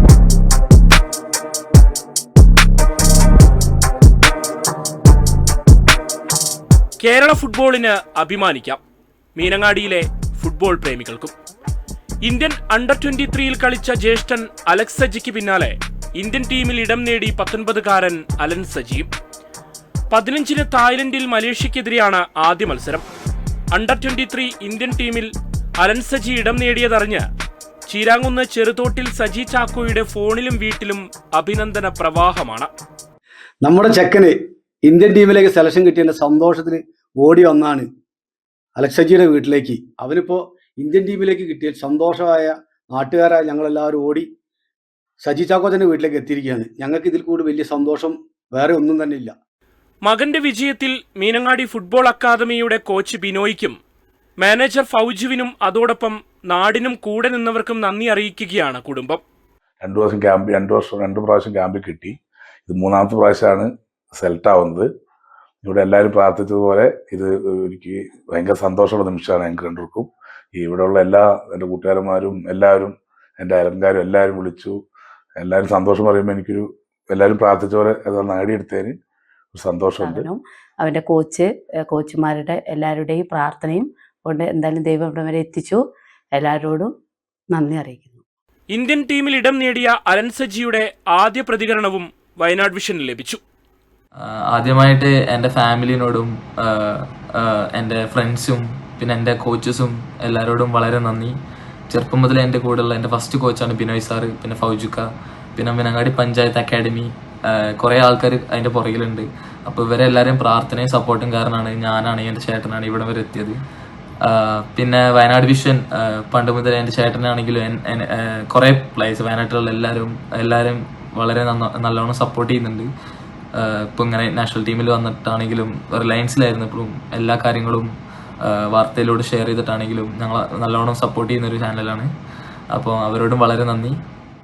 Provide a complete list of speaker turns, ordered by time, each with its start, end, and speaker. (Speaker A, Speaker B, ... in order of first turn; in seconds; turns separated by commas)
Speaker A: 7.0-8.8, Speaker A: 9.4-11.3, Speaker A: 12.2-19.1, Speaker A: 20.1-23.1, Speaker A: 23.7-27.2, Speaker A: 27.9-32.7, Speaker B: 33.7-34.3, Speaker C: 34.9-36.6, Speaker B: 36.2-36.8, Speaker C: 37.3-37.6, Speaker B: 37.5-37.9, Speaker C: 38.8-42.4, Speaker B: 43.0-43.9, Speaker C: 43.0-44.2, Speaker C: 45.3-49.3, Speaker B: 46.8-47.0, Speaker A: 50.0-53.8, Speaker A: 54.4-59.2, Speaker D: 59.8-62.1, Speaker D: 62.7-64.9, Speaker D: 65.6-74.8, Speaker D: 75.4-78.9, Speaker D: 79.5-80.3, Speaker B: 80.3-85.8, Speaker B: 86.4-86.9, Speaker B: 87.5-88.2, Speaker A: 88.7-93.4, Speaker E: 94.2-101.3, Speaker E: 101.9-113.6, Speaker E: 114.2-122.9, Speaker E: 123.5-132.1, Speaker E: 132.7-134.0